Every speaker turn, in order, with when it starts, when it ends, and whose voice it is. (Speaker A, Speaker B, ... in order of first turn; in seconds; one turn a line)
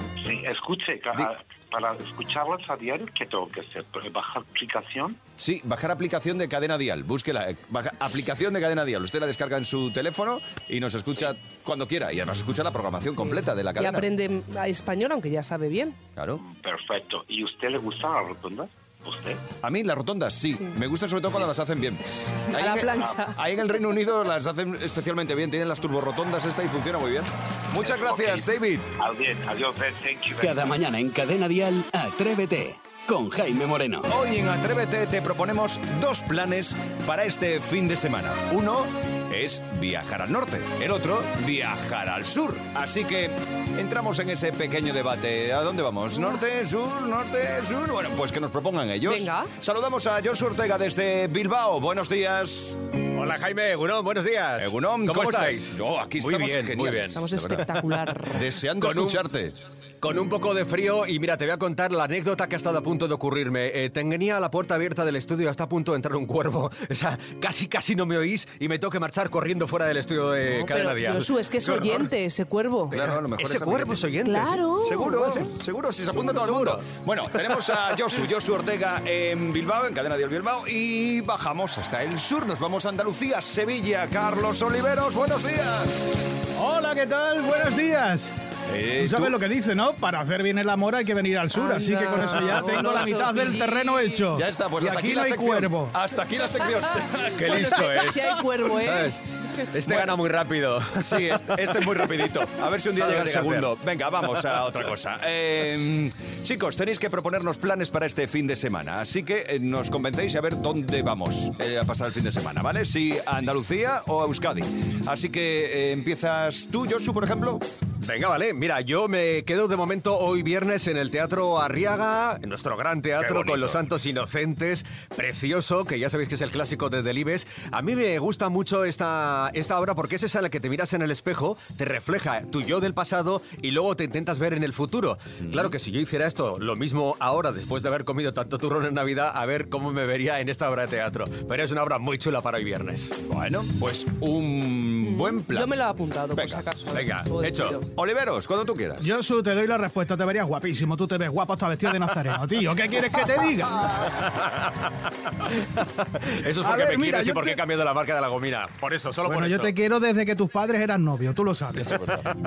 Speaker A: 0.2-5.2
Speaker B: 5.4-14.1
Speaker C: 13.2-16.0
Speaker B: 16.2-16.4
Speaker A: 16.4-19.4
Speaker B: 19.6-28.9
Speaker C: 22.2-23.4
Speaker A: 27.8-30.6
Speaker D: 30.4-34.1
Speaker B: 34.1-52.8
Speaker C: 49.1-49.5
Speaker E: 53.1-57.3
Speaker B: 54.6-57.7
Speaker C: 57.1-58.4
Speaker B: 58.3-59.6
Speaker E: 58.8-59.2
Speaker E: 60.0-71.3
Speaker C: 70.5-72.9
Speaker B: 71.6-72.1
Speaker B: 72.9-74.2
Speaker E: 72.9-74.7
Speaker C: 74.2-75.5
Speaker B: 74.8-86.1
Speaker E: 76.3-76.8
Speaker F: 86.6-88.3
Speaker B: 88.7-89.4
Speaker F: 89.0-95.9
Speaker C: 91.5-94.2
Speaker B: 94.3-98.2
Speaker C: 97.3-99.1
Speaker E: 97.3-99.2
Speaker E: 99.7-102.1
Speaker B: 99.8-100.2
Speaker B: 100.9-117.6
Speaker E: 102.9-103.8
Speaker E: 118.0-143.2
Speaker B: 123.2-123.8
Speaker B: 135.4-135.7
Speaker B: 143.2-145.8
Speaker C: 145.0-147.8
Speaker B: 146.3-146.6
Speaker E: 146.9-147.8
Speaker B: 147.9-149.1
Speaker F: 149.0-153.8
Speaker E: 154.1-154.9
Speaker E: 155.8-159.7
Speaker F: 156.6-157.6
Speaker F: 159.2-162.0